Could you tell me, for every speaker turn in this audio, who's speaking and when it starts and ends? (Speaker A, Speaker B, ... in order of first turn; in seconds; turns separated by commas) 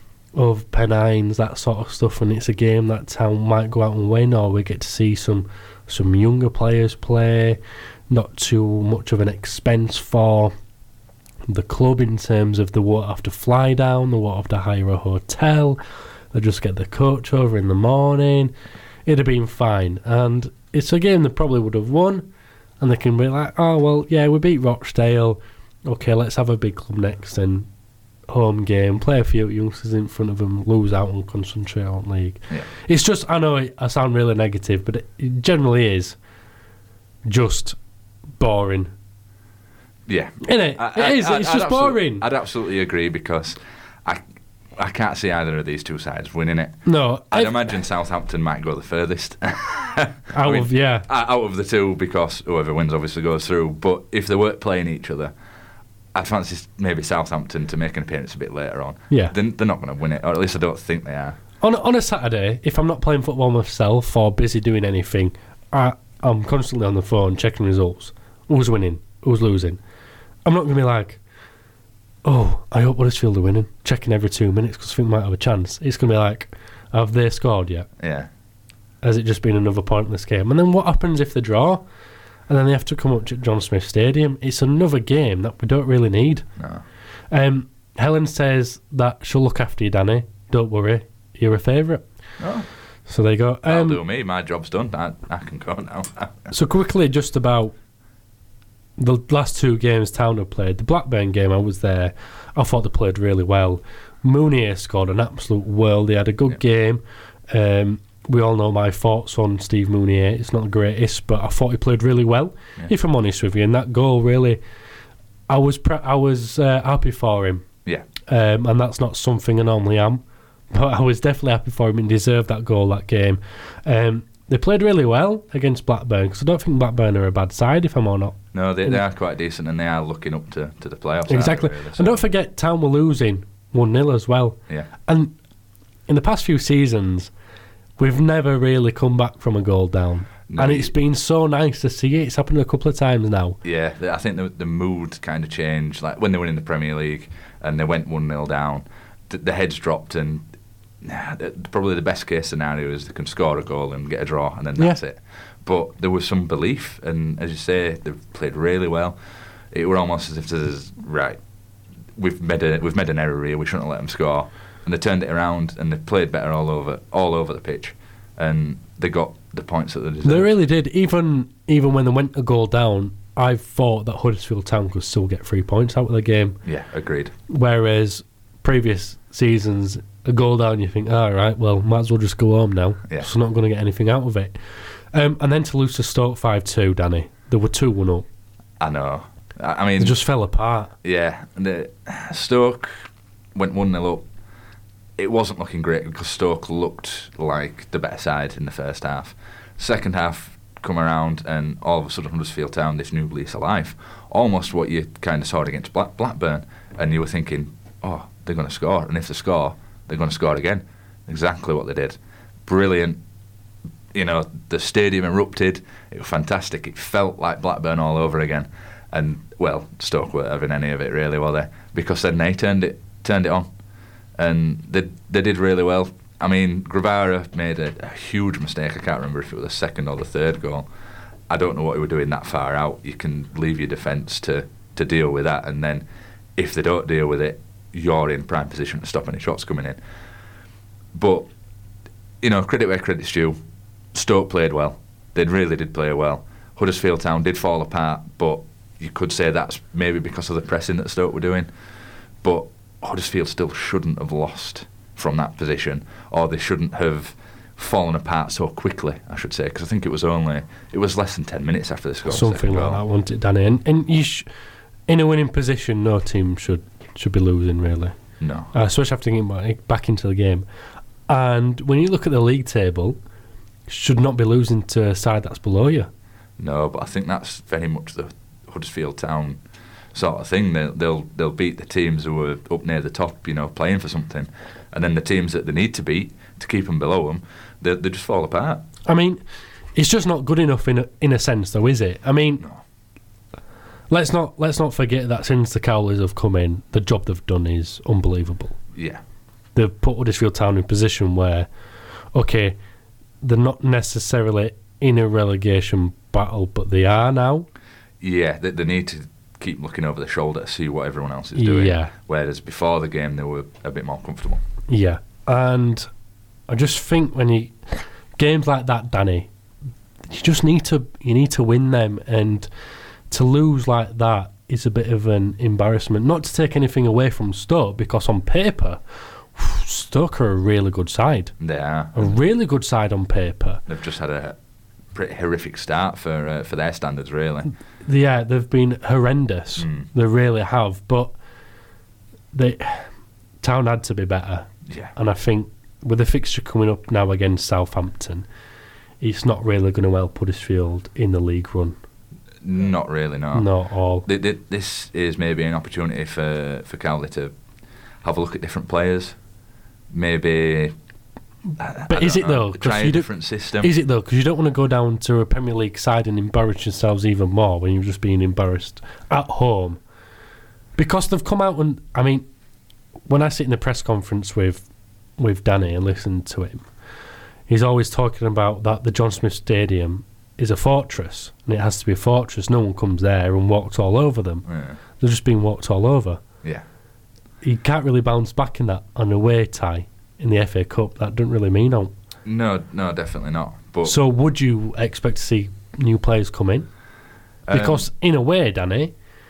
Speaker A: 0.3-7.6, Speaker A: 8.1-10.5, Speaker A: 11.5-15.8, Speaker A: 16.3-18.5, Speaker A: 19.1-22.3, Speaker A: 22.8-27.7, Speaker A: 28.3-36.1, Speaker A: 37.2-37.8, Speaker A: 38.4-38.9, Speaker B: 40.1-44.2, Speaker A: 40.4-42.2, Speaker B: 44.8-46.8, Speaker A: 46.9-47.6, Speaker B: 47.3-55.3, Speaker A: 50.3-51.1, Speaker B: 56.1-61.4, Speaker A: 61.6-69.8, Speaker A: 70.5-71.2, Speaker A: 72.2-77.9, Speaker B: 78.0-78.3, Speaker A: 79.0-81.8, Speaker A: 82.5-86.5, Speaker B: 86.6-86.8, Speaker A: 87.3-92.0, Speaker B: 92.4-92.7, Speaker A: 93.1-94.0, Speaker B: 93.7-96.5, Speaker A: 96.5-97.8, Speaker A: 99.0-114.6, Speaker A: 115.5-117.6, Speaker A: 118.3-129.0, Speaker B: 128.5-132.3, Speaker A: 131.3-135.3, Speaker A: 136.1-137.3, Speaker A: 138.0-143.6, Speaker B: 140.5-140.9, Speaker B: 143.6-150.4, Speaker B: 151.0-159.2, Speaker B: 159.7-161.4, Speaker B: 162.2-170.5, Speaker A: 170.2-176.6, Speaker B: 176.6-177.3, Speaker A: 177.5-184.5, Speaker A: 185.1-188.2, Speaker B: 188.8-190.2, Speaker A: 190.0-190.9, Speaker B: 191.0-194.2, Speaker B: 195.2-213.2, Speaker B: 214.1-223.7, Speaker B: 224.4-230.9, Speaker B: 231.5-240.0, Speaker B: 241.1-241.5, Speaker B: 242.4-243.6, Speaker B: 244.1-251.7, Speaker B: 252.4-263.0, Speaker A: 262.3-264.5, Speaker A: 265.1-268.1, Speaker B: 268.4-268.7, Speaker A: 268.7-270.6, Speaker A: 271.3-273.2, Speaker A: 273.9-276.1, Speaker B: 276.6-279.6, Speaker B: 280.1-288.9, Speaker A: 289.1-289.4, Speaker A: 290.0-292.6, Speaker A: 294.1-298.8, Speaker B: 298.9-299.2, Speaker A: 299.8-301.7, Speaker A: 302.3-302.8, Speaker A: 303.4-307.7, Speaker B: 308.2-314.6, Speaker A: 311.6-312.1, Speaker A: 314.9-316.1, Speaker A: 316.7-319.5, Speaker A: 320.3-322.7, Speaker A: 323.3-329.0, Speaker A: 329.5-331.5, Speaker B: 331.6-332.4, Speaker A: 332.1-333.8, Speaker B: 333.9-334.6, Speaker B: 335.1-337.7, Speaker A: 338.0-341.4, Speaker B: 339.8-340.1, Speaker A: 342.5-343.1, Speaker A: 343.6-348.5, Speaker A: 349.2-352.0, Speaker B: 352.6-353.7, Speaker A: 353.5-354.3, Speaker B: 354.2-357.5, Speaker B: 358.2-359.4, Speaker B: 360.1-360.9, Speaker B: 361.8-363.9, Speaker A: 362.1-363.3, Speaker A: 363.8-370.0, Speaker A: 371.0-372.5, Speaker A: 373.3-374.8, Speaker A: 375.4-376.9, Speaker A: 377.7-384.6, Speaker B: 384.7-385.0, Speaker A: 385.2-386.4, Speaker A: 387.6-392.1, Speaker B: 392.4-394.2, Speaker A: 394.0-396.9, Speaker B: 397.7-398.1, Speaker A: 397.7-399.1